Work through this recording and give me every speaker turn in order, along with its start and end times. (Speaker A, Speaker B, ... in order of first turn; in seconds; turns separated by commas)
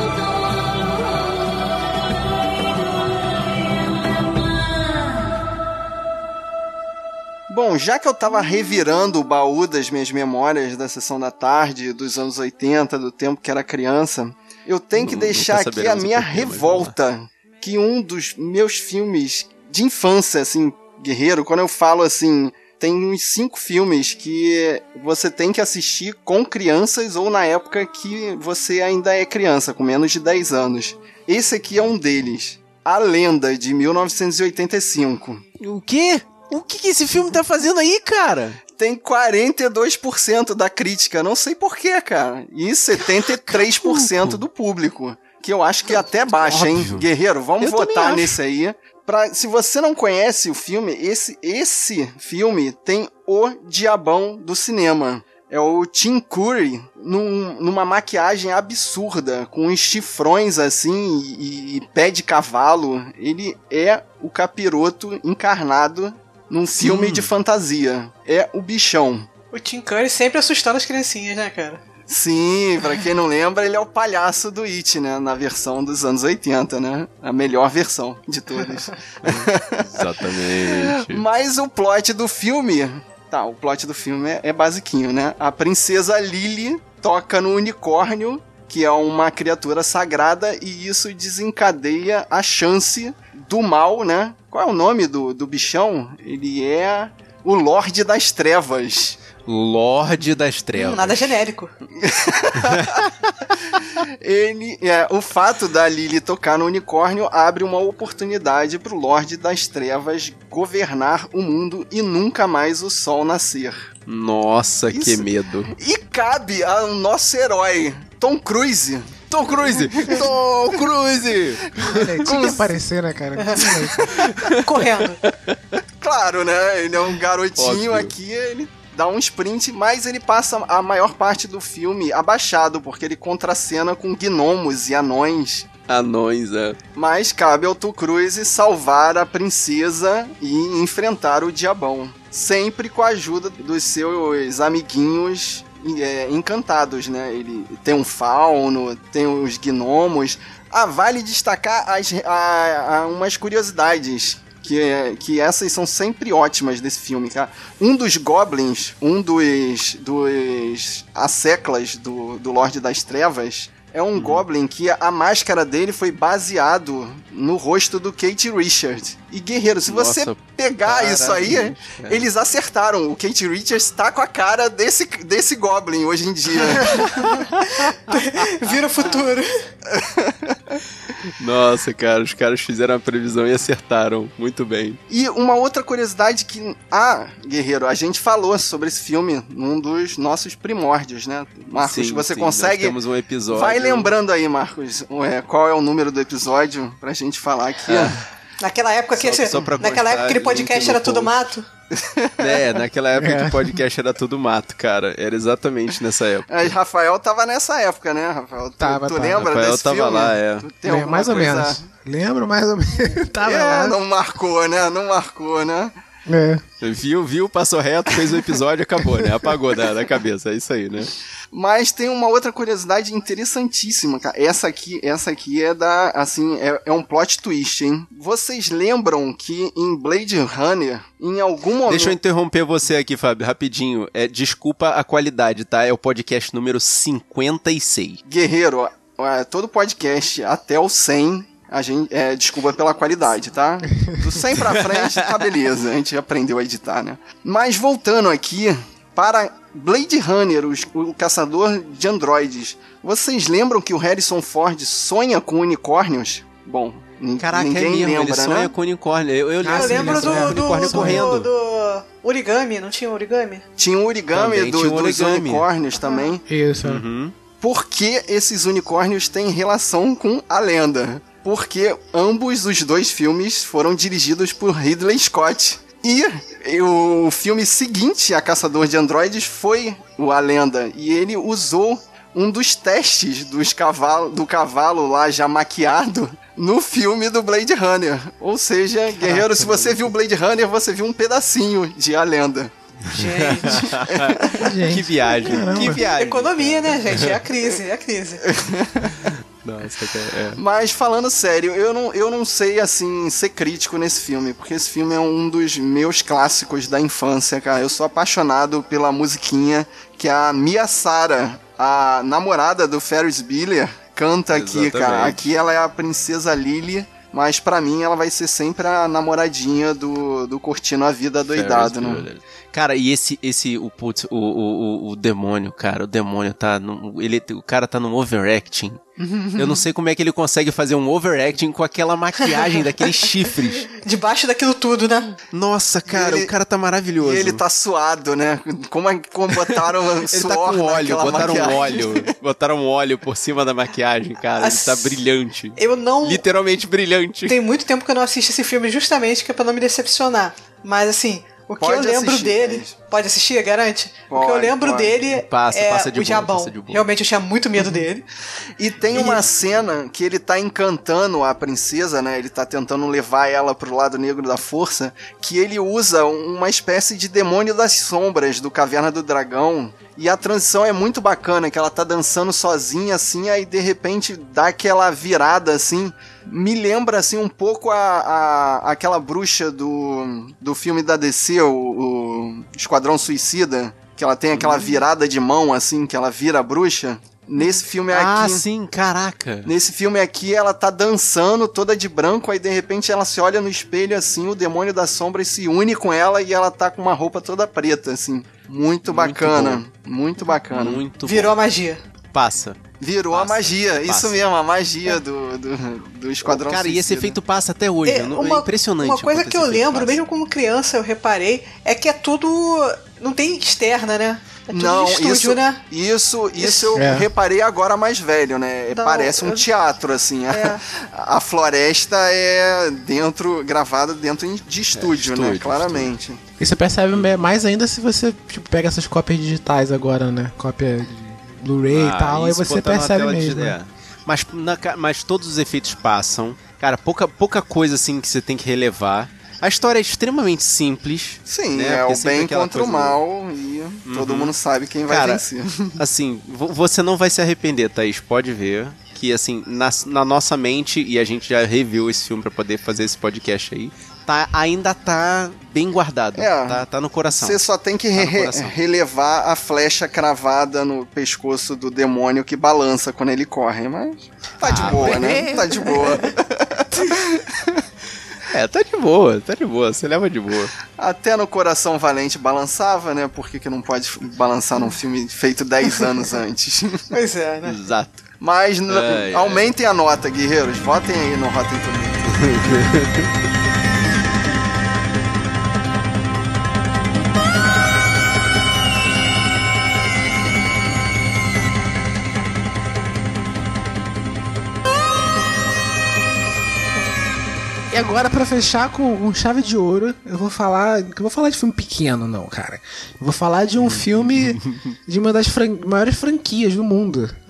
Speaker A: 7.5-35.4, Speaker B: 14.9-16.9, Speaker B: 35.6-38.6, Speaker A: 38.7-69.3, Speaker B: 42.9-44.4, Speaker B: 45.8-47.1, Speaker B: 47.6-48.4, Speaker B: 66.8-67.3, Speaker C: 69.5-71.8, Speaker A: 72.1-99.2, Speaker B: 79.2-81.2, Speaker B: 99.5-101.3, Speaker C: 100.7-101.7, Speaker A: 102.0-103.1, Speaker B: 102.7-103.0, Speaker A: 104.0-113.9, Speaker B: 114.1-115.7, Speaker A: 114.9-120.4, Speaker B: 119.3-122.6, Speaker A: 121.7-122.6, Speaker D: 121.8-124.2, Speaker C: 123.4-123.7, Speaker A: 124.0-124.3, Speaker B: 124.1-124.9, Speaker C: 124.5-125.2, Speaker A: 126.0-135.7, Speaker B: 127.5-128.1, Speaker B: 135.9-136.8, Speaker A: 136.9-177.4, Speaker B: 164.1-164.4, Speaker B: 169.8-172.2, Speaker C: 176.8-179.5, Speaker A: 179.9-180.8, Speaker B: 181.4-185.0, Speaker A: 185.1-193.0, Speaker B: 191.8-194.1, Speaker A: 193.5-198.2, Speaker B: 197.8-198.2, Speaker C: 198.6-201.7, Speaker B: 199.2-201.4, Speaker A: 201.9-202.8, Speaker B: 202.4-206.7, Speaker D: 203.1-203.8, Speaker A: 206.5-211.8, Speaker D: 208.8-209.5, Speaker B: 209.3-210.7, Speaker D: 210.8-214.0, Speaker A: 213.4-215.9, Speaker D: 216.3-216.6, Speaker B: 216.8-221.1, Speaker A: 221.5-232.2, Speaker B: 231.8-238.2, Speaker A: 238.2-258.7, Speaker B: 244.6-245.5, Speaker B: 257.4-261.5, Speaker D: 259.6-261.3, Speaker C: 259.7-263.6, Speaker A: 263.8-266.4, Speaker B: 264.3-265.6, Speaker D: 266.5-267.0, Speaker B: 266.8-267.3, Speaker A: 267.6-292.7, Speaker B: 289.1-290.1, Speaker B: 293.0-297.4, Speaker C: 293.1-294.6, Speaker A: 294.1-294.4, Speaker D: 294.5-296.0, Speaker C: 295.9-298.4, Speaker A: 298.5-299.3, Speaker B: 299.0-300.6, Speaker A: 300.5-322.2, Speaker B: 314.5-315.4, Speaker B: 321.5-329.0, Speaker A: 329.2-329.8, Speaker B: 329.5-333.9, Speaker C: 332.4-333.2, Speaker C: 333.9-335.3, Speaker B: 335.5-337.6, Speaker A: 336.1-336.5, Speaker A: 337.2-342.3, Speaker B: 339.5-347.6, Speaker C: 341.5-342.0, Speaker C: 344.6-345.2, Speaker C: 345.8-346.4, Speaker C: 347.5-358.2, Speaker A: 351.8-352.9, Speaker A: 354.3-355.2, Speaker B: 355.3-357.0, Speaker A: 358.8-388.6, Speaker C: 359.1-359.4, Speaker B: 384.5-385.0, Speaker B: 388.1-389.7, Speaker A: 389.6-401.0, Speaker B: 399.0-399.8, Speaker B: 400.7-401.5, Speaker C: 401.2-402.0, Speaker B: 402.3-402.8, Speaker A: 403.0-407.4, Speaker B: 403.3-404.4, Speaker B: 406.4-410.2, Speaker C: 408.0-415.8, Speaker A: 414.7-426.4, Speaker C: 416.6-416.9, Speaker D: 416.9-417.3, Speaker C: 418.9-419.7, Speaker C: 420.5-420.8, Speaker B: 424.9-426.1, Speaker D: 426.6-433.8, Speaker B: 431.9-443.2, Speaker A: 441.5-446.0, Speaker B: 444.0-444.5, Speaker B: 445.1-445.4, Speaker B: 445.9-457.6, Speaker A: 456.3-467.8, Speaker B: 458.1-458.8, Speaker B: 464.6-465.4, Speaker D: 464.7-466.1, Speaker B: 468.5-470.7, Speaker A: 470.9-477.1, Speaker C: 477.1-477.8, Speaker B: 477.6-478.2, Speaker A: 478.4-482.6, Speaker B: 478.9-479.6, Speaker B: 482.3-483.2, Speaker D: 497.9-507.3, Speaker B: 503.8-504.9